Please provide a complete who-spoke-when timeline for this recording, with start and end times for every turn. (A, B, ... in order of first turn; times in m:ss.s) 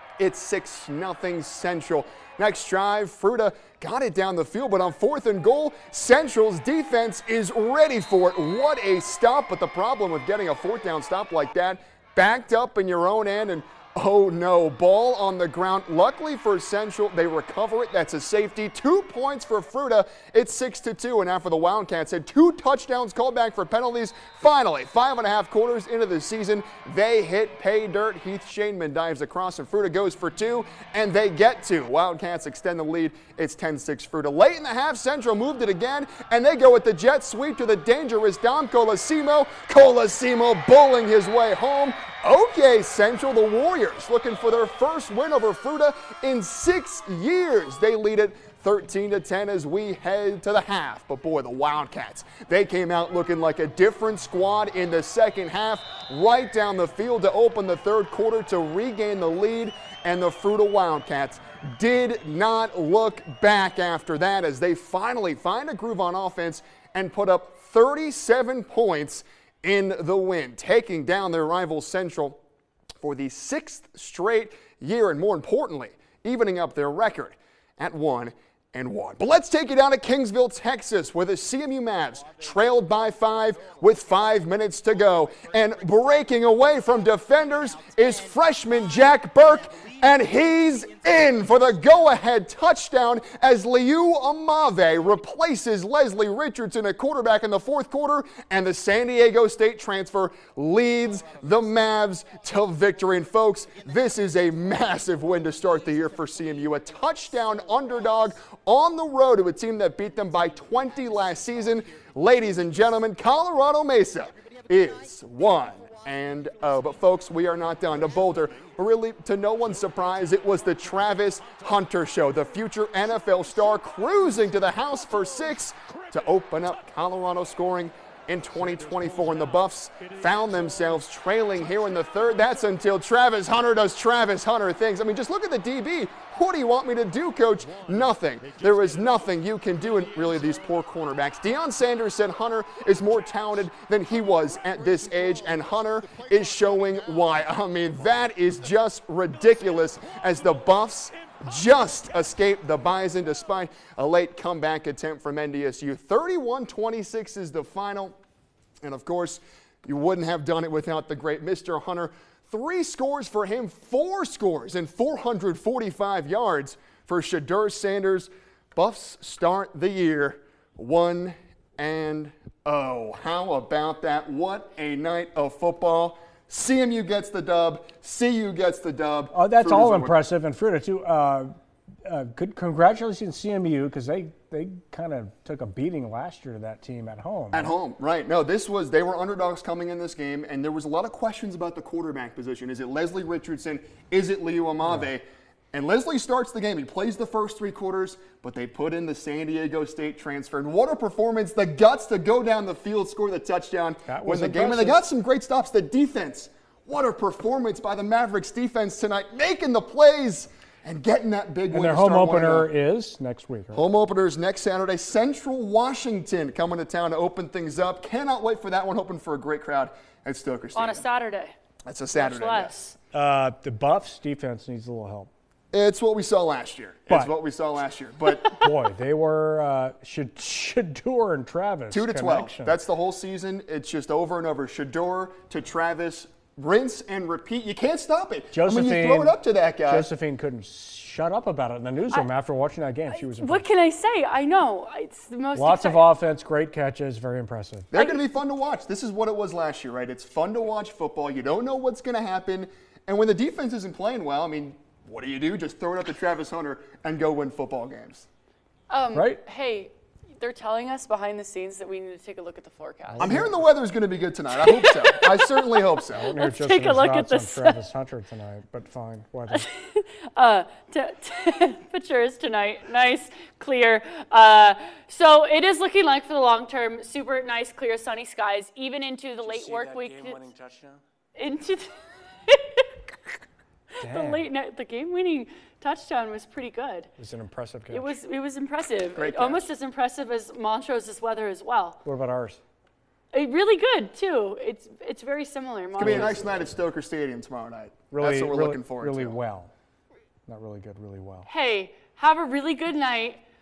0:00.2-1:12.4 A
1:13.0-2:38.2 A
2:38.8-3:00.2 A
2:59.3-3:01.5 B
3:02.0-3:07.7 B
3:07.5-3:32.7 A
3:24.1-3:25.0 B
3:31.7-3:33.8 B
3:33.7-3:41.0 A
3:40.7-3:41.5 C
3:41.8-3:42.8 A
3:42.2-3:43.0 C
3:43.1-3:45.3 B
3:45.7-3:48.6 A
3:48.4-3:52.8 B
3:51.9-4:00.1 A
3:58.5-4:03.6 B
4:03.1-4:06.0 C
4:05.5-4:07.9 B
4:07.9-4:18.3 A
4:07.9-4:08.2 C
4:18.9-4:23.3 C
4:19.1-4:19.4 B
4:23.1-4:23.6 B
4:23.2-4:26.4 A
4:24.6-4:27.8 C
4:26.1-4:29.6 B
4:29.5-4:40.4 C
4:39.4-4:41.0 B
4:41.4-4:43.3 C
4:44.0-4:44.4 B
4:44.0-4:47.1 C
4:47.2-4:48.1 B
4:47.9-4:52.0 C
4:49.1-4:49.7 A
4:52.0-4:52.6 B
4:53.3-4:56.6 C
4:56.0-4:59.4 A
4:56.0-4:56.4 B
4:58.1-4:59.7 B
5:00.5-5:01.5 B
5:01.4-5:03.4 C